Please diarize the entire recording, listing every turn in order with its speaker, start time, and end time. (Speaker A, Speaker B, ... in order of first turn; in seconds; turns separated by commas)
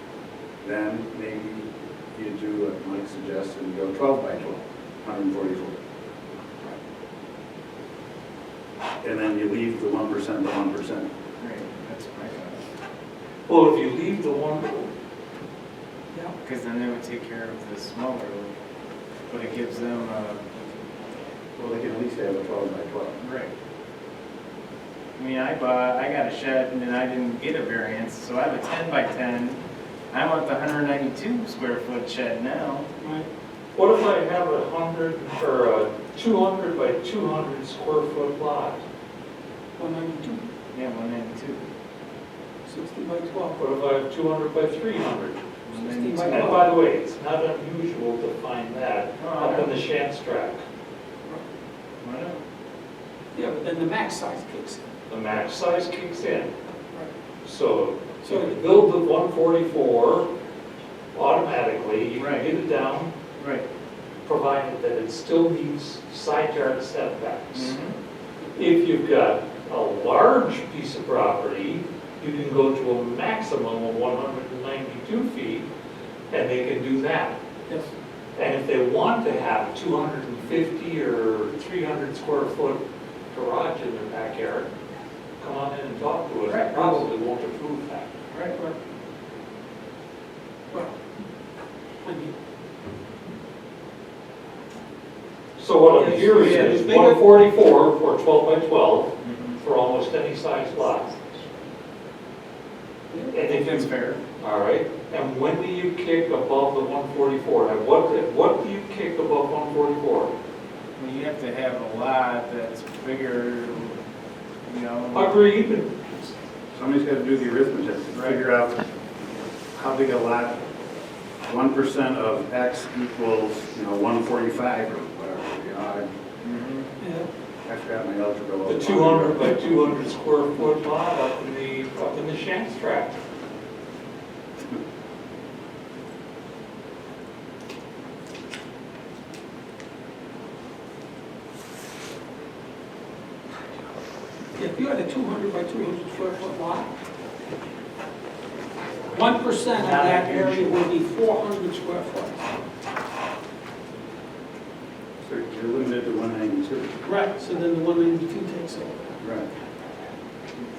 Speaker A: 0.6-5.8, Speaker A: 9.0-11.1, Speaker B: 11.4-12.6, Speaker C: 13.5-14.9, Speaker B: 16.4-18.5, Speaker B: 19.3-20.4, Speaker A: 21.6-23.2, Speaker B: 23.2-23.5, Speaker B: 25.2-29.6, Speaker B: 30.1-32.9, Speaker D: 33.0-33.3, Speaker C: 33.7-38.8, Speaker D: 39.8-40.4, Speaker B: 40.7-41.6, Speaker D: 42.6-43.6, Speaker C: 43.6-45.4, Speaker B: 45.6-46.6, Speaker D: 45.8-46.7, Speaker C: 46.3-50.6, Speaker B: 49.2-49.7, Speaker B: 52.0-52.4, Speaker D: 53.3-54.8, Speaker C: 55.1-56.5, Speaker C: 57.4-60.3, Speaker D: 58.2-58.6, Speaker C: 61.1-63.1, Speaker B: 62.2-62.5, Speaker B: 63.4-63.6, Speaker C: 64.2-67.7, Speaker B: 67.5-67.9, Speaker C: 68.5-75.7, Speaker C: 76.3-77.4, Speaker C: 78.3-84.7, Speaker C: 85.4-88.1, Speaker B: 86.5-86.8, Speaker B: 88.3-88.5, Speaker D: 92.0-92.3, Speaker C: 95.6-101.2, Speaker D: 95.9-97.2, Speaker B: 99.2-99.6, Speaker C: 103.3-110.3, Speaker B: 103.4-104.2, Speaker B: 111.0-114.0, Speaker B: 114.7-115.4, Speaker C: 115.1-116.1, Speaker A: 116.7-118.8, Speaker A: 119.7-120.6, Speaker A: 121.5-126.1, Speaker B: 126.4-126.9, Speaker D: 127.0-127.3, Speaker A: 127.6-129.6, Speaker C: 128.6-133.2, Speaker D: 144.6-146.9, Speaker D: 149.1-152.5, Speaker C: 149.8-150.8, Speaker A: 155.2-156.9, Speaker D: 157.0-159.1, Speaker A: 159.2-159.5